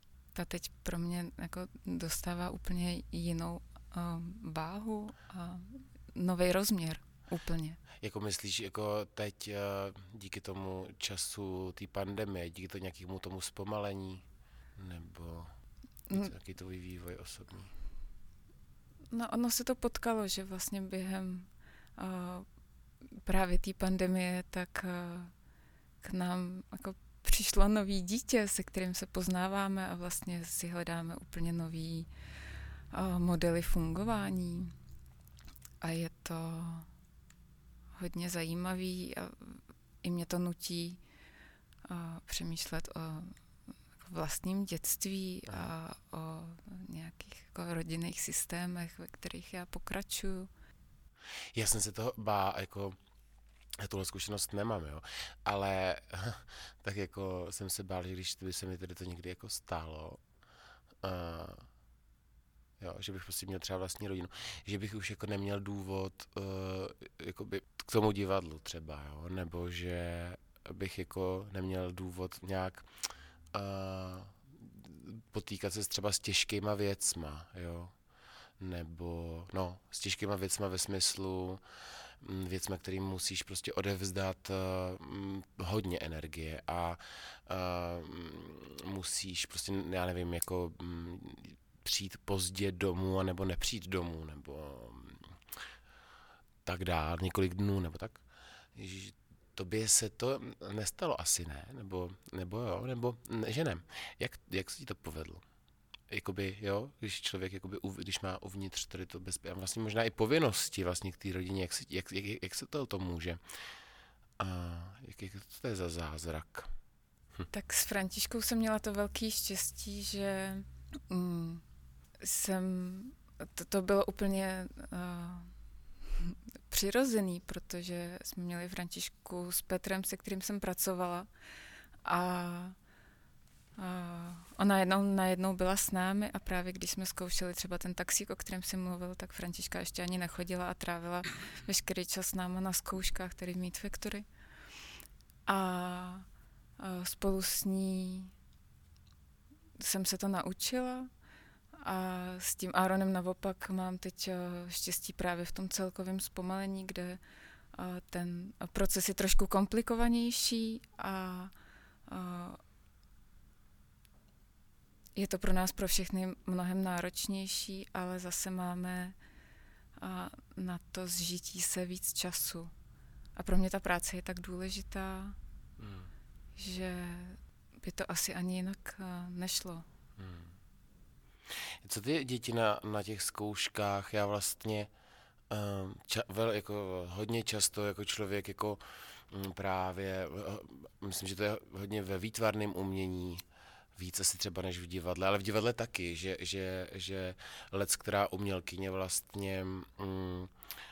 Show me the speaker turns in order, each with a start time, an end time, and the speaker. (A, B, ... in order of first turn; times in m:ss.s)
0:00.3-0:07.8 A
0:08.0-0:14.2 B
0:14.8-0:15.5 B
0:16.1-0:16.3 A
0:16.1-0:17.7 B
0:19.1-0:22.4 A
0:23.2-0:25.3 A
0:26.0-0:32.1 A
0:32.9-0:34.7 A
0:35.8-0:36.9 A
0:38.0-0:41.0 A
0:41.9-0:43.3 A
0:44.0-0:50.5 A
0:51.5-0:53.0 B
0:53.8-1:00.2 B
1:01.0-1:01.6 B
1:02.8-1:12.9 B
1:13.5-1:17.9 B
1:18.6-1:21.6 B
1:22.2-1:35.4 B
1:36.6-1:38.2 B
1:38.7-1:45.4 B
1:46.1-1:53.4 B
1:54.4-1:56.7 B
1:57.5-2:01.6 A
2:02.2-2:05.5 A
2:06.2-2:11.3 A
2:12.0-2:12.8 A
2:13.8-2:24.2 A
2:25.5-2:26.2 A
2:26.8-2:28.3 A
2:29.8-2:31.1 A
2:31.8-2:37.2 A
2:37.7-2:41.5 A
2:42.1-2:42.6 A
2:45.2-2:49.2 A
2:50.0-2:52.7 A
2:53.4-2:55.4 A
2:55.8-2:56.1 B
2:56.6-2:59.8 A
3:00.2-3:00.5 B
3:01.8-3:04.9 B
3:05.5-3:13.4 B
3:14.0-3:20.5 B